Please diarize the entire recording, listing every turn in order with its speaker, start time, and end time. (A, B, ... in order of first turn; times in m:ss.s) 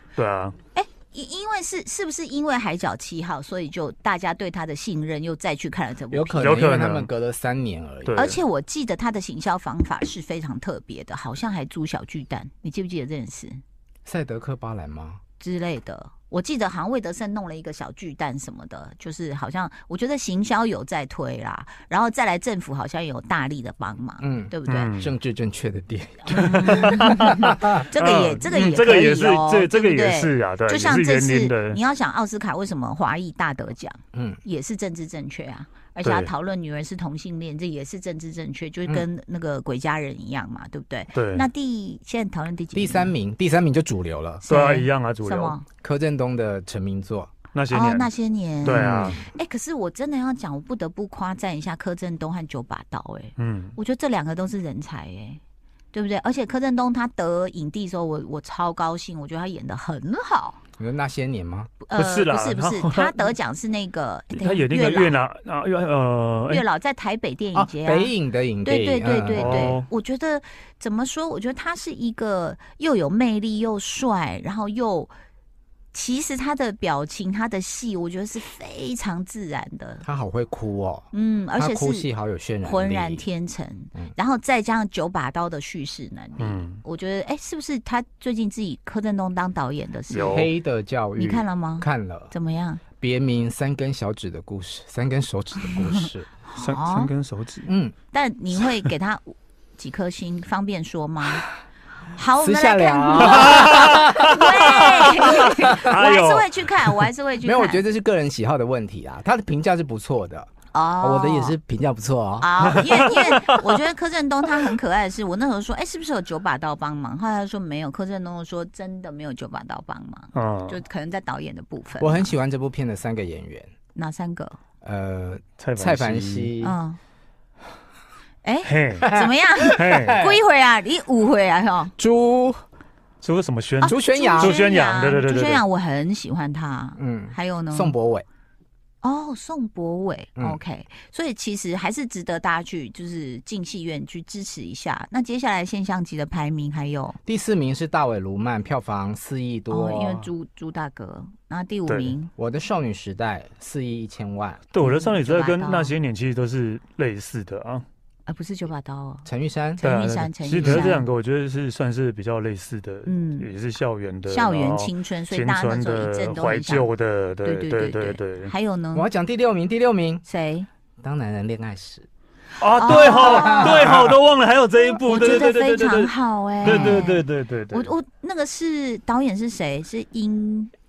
0:00.2-0:00.6 A
0:00.7-0:06.5 B
0:06.1-0:08.2 C
0:06.4-0:07.1 A
0:08.0-0:08.4 A
0:08.1-0:13.6 B
0:14.0-0:15.2 C
0:15.4-0:24.9 B
0:24.2-0:27.8 C
0:24.7-0:25.1 A
0:26.3-0:43.1 B
0:26.3-0:31.8 A
0:34.1-0:34.4 C
0:36.0-0:36.3 A
0:41.1-0:41.5 A
0:42.7-0:44.4 C
0:44.4-0:45.6 B
0:44.5-0:45.5 A
0:45.8-0:47.3 C
0:47.5-0:48.1 A
0:47.7-0:55.4 B
0:48.6-0:49.2 A
0:48.7-0:49.3 C
0:53.4-0:53.8 A
0:55.9-1:00.6 B
1:00.8-1:01.7 C
1:01.8-1:05.2 B
1:02.0-1:03.3 A
1:04.3-1:06.6 A
1:06.5-1:08.1 B
1:07.5-1:09.8 C
1:08.6-1:15.1 B
1:09.3-1:09.8 A
1:15.9-1:20.0 B
1:20.0-1:23.2 C
1:21.1-1:22.1 B
1:22.6-1:30.5 B
1:26.4-1:26.8 A
1:30.1-1:30.5 A
1:30.3-1:32.3 C
1:31.2-1:32.8 B
1:33.0-1:36.3 C
1:35.7-1:37.1 B
1:36.6-1:37.7 A
1:37.7-1:37.9 C
1:38.1-1:41.4 B
1:42.1-1:47.8 B
1:42.4-1:44.7 C
1:43.2-1:47.1 A
1:47.4-1:53.0 C
1:50.7-1:51.6 B
1:52.4-2:02.3 B
1:52.7-1:53.7 A
2:00.3-2:00.8 A
2:02.0-2:03.7 C
2:04.0-2:04.6 B
2:04.8-2:06.8 C
2:05.6-2:06.5 A
2:06.6-2:07.0 B
2:08.4-2:11.9 B
2:08.6-2:10.2 A
2:09.0-2:10.4 C
2:12.0-2:12.6 C
2:13.2-2:15.6 A
2:13.8-2:17.9 B
2:13.8-2:14.6 C
2:17.0-2:18.2 C
2:19.0-2:27.2 B
2:27.2-2:30.3 C
2:29.7-2:32.3 B
2:31.9-2:32.1 A
2:32.4-2:34.6 C
2:34.7-2:37.8 A
2:34.8-2:35.9 B
2:38.3-2:39.3 B
2:39.2-2:39.8 C
2:39.8-2:41.0 B
2:39.8-2:48.5 A
2:40.6-2:40.9 C
2:43.0-2:43.5 B
2:44.3-2:46.9 B
2:47.4-2:49.1 B
2:48.9-2:50.2 C
2:50.2-2:50.7 B
2:51.0-2:52.1 C
2:52.6-2:57.9 A
2:52.7-2:54.0 B
2:52.8-2:54.2 C
2:55.0-3:00.7 B
2:56.6-2:57.1 C